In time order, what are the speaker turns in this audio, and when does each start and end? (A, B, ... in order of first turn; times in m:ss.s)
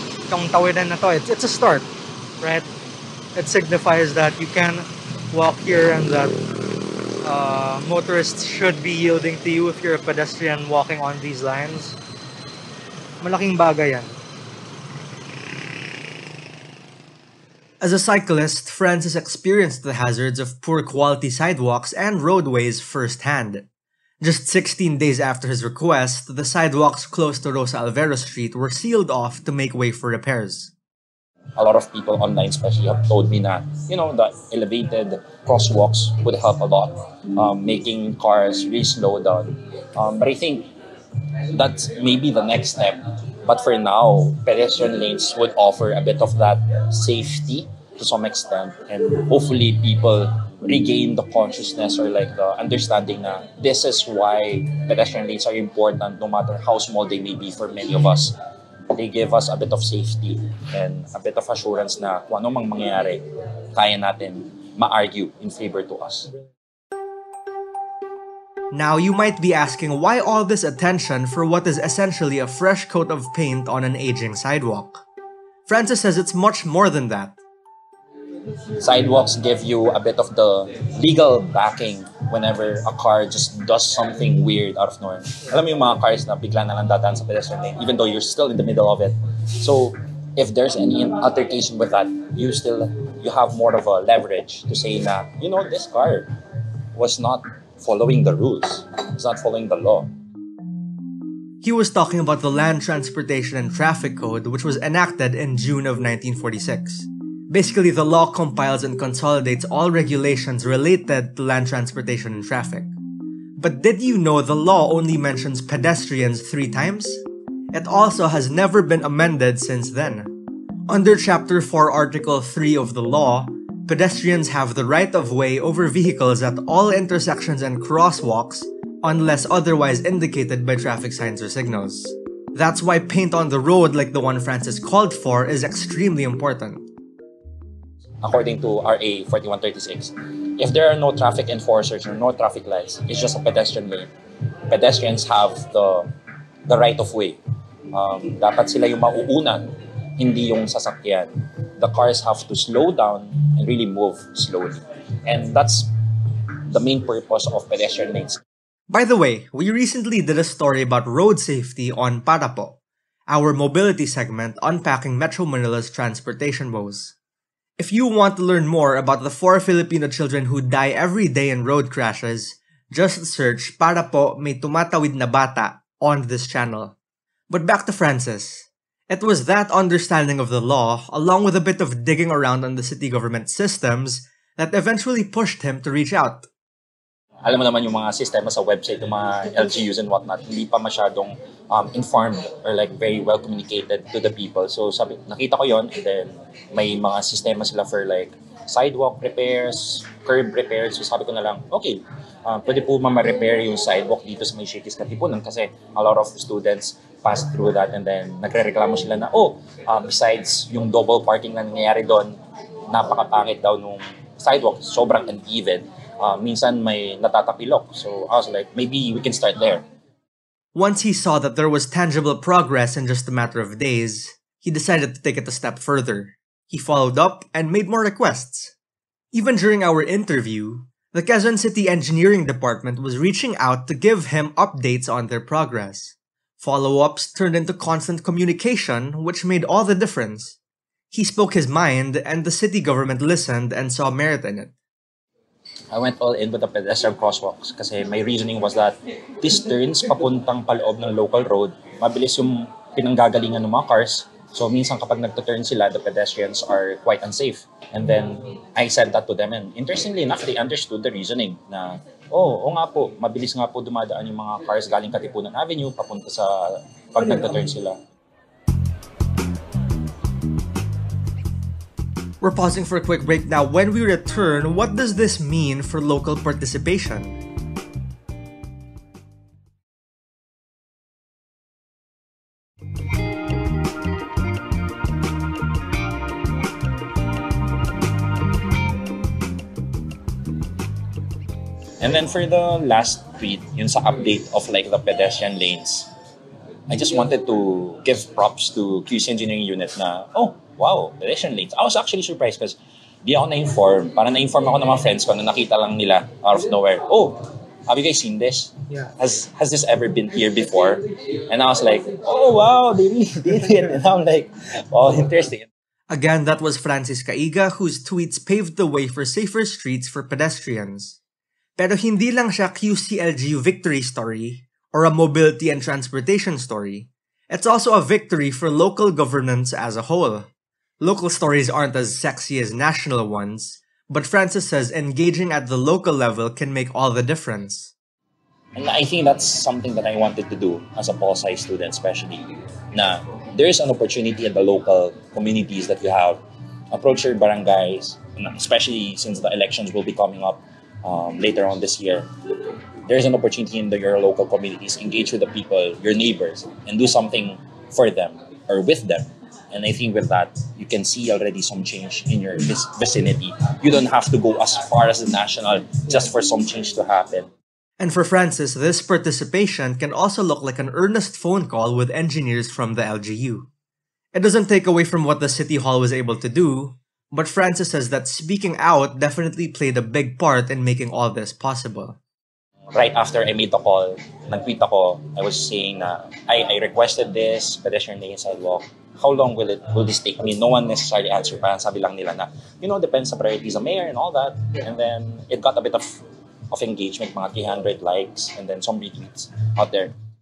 0:00.3-0:01.9 A
0:02.4-0:02.6 A
0:03.4-0:06.3 A
0:07.2-0:12.0 A
0:13.2-0:14.1 A
0:17.8-0:23.6 B
0:24.2-0:30.7 B
0:31.6-0:40.7 C
0:41.5-0:58.4 C
0:58.9-1:06.3 C
1:08.7-1:15.0 B
1:15.7-1:17.4 B
1:18.8-1:36.3 C
1:36.9-1:40.1 C
1:41.6-1:52.9 B
1:53.6-2:00.3 B
2:00.9-2:16.9 B
2:18.2-2:24.1 C
2:24.7-2:26.1 C
2:26.7-2:27.4 C
2:27.9-2:29.6 C
2:30.2-2:35.9 C
2:36.7-2:38.4 C
2:38.9-2:42.8 B
2:43.3-2:47.1 B
2:47.8-2:56.9 B
2:57.5-3:06.5 B
3:07.4-3:32.4 C
3:32.9-3:39.8 C
3:40.7-3:48.7 B
3:49.3-4:00.6 B
4:01.1-4:04.7 B
4:05.9-4:28.0 C
4:32.4-4:37.4 B
4:52.0-4:56.1 C
4:56.9-5:15.7 C
5:16.1-5:21.2 B
5:21.8-5:30.5 B
5:31.0-5:37.9 B
5:38.8-5:46.4 C
5:46.9-5:52.3 C
5:53.0-6:07.5 C
6:08.0-6:13.7 B
6:14.3-6:22.2 B
6:22.9-6:40.1 C